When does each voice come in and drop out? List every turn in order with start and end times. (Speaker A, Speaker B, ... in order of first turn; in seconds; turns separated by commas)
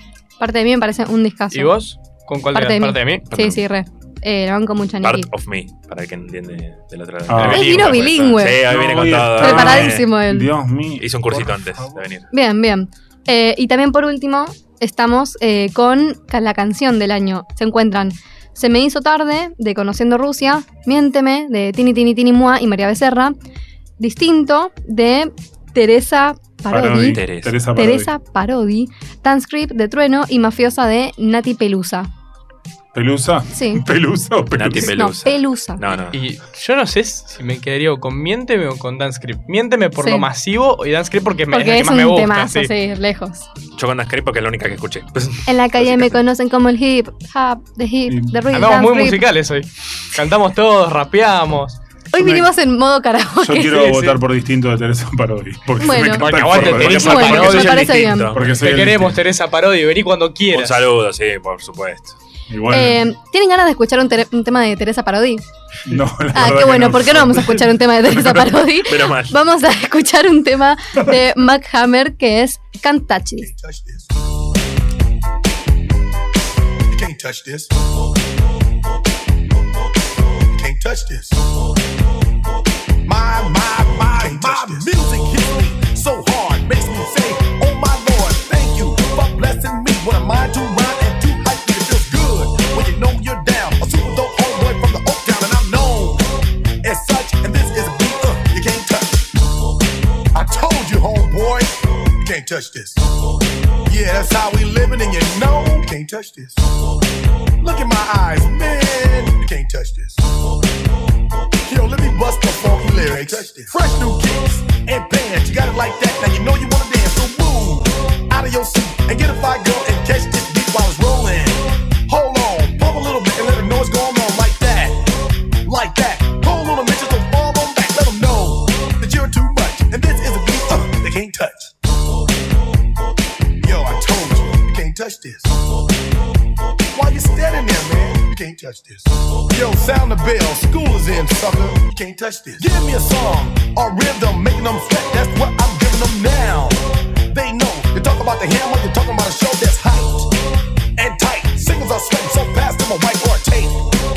Speaker A: 0.4-1.7, Speaker B: 1.5-3.2, Speaker A: 2.5-5.3, Speaker C: 3.3-3.6, Speaker C: 5.0-10.1, Speaker D: 7.3-7.8, Speaker B: 7.4-8.1, Speaker A: 7.5-8.7, Speaker D: 8.6-12.0, Speaker A: 9.4-10.5, Speaker C: 11.0-12.3, Speaker A: 12.3-23.4, Speaker A: 24.0-27.2, Speaker D: 26.7-28.1, Speaker C: 27.1-27.6, Speaker A: 27.7-32.1, Speaker D: 32.9-35.0, Speaker A: 33.5-33.8, Speaker C: 34.5-36.2, Speaker A: 34.8-35.8, Speaker B: 36.1-42.7, Speaker A: 40.0-40.3, Speaker A: 41.5-43.5, Speaker C: 43.8-46.2, Speaker A: 45.5-49.3, Speaker D: 48.0-48.8, Speaker B: 48.5-51.8, Speaker A: 52.1-54.1, Speaker D: 52.2-52.5, Speaker D: 53.4-57.5, Speaker A: 55.8-56.3, Speaker B: 56.1-60.9, Speaker C: 56.4-58.6, Speaker A: 56.8-58.3, Speaker D: 58.3-59.2, Speaker C: 60.5-62.2, Speaker D: 62.5-63.0, Speaker A: 62.7-65.4, Speaker D: 65.8-67.9, Speaker A: 66.3-73.5, Speaker C: 68.2-69.3, Speaker E: 73.4-74.1, Speaker E: 76.9-77.7, Speaker E: 80.5-81.4, Speaker E: 83.0-96.2, Speaker E: 96.8-99.3, Speaker E: 100.3-103.0, Speaker E: 103.9-106.6, Speaker E: 107.6-110.3, Speaker E: 111.7-125.0, Speaker E: 125.6-131.7, Speaker E: 133.6-135.6, Speaker E: 136.9-150.3, Speaker E: 151.0-153.8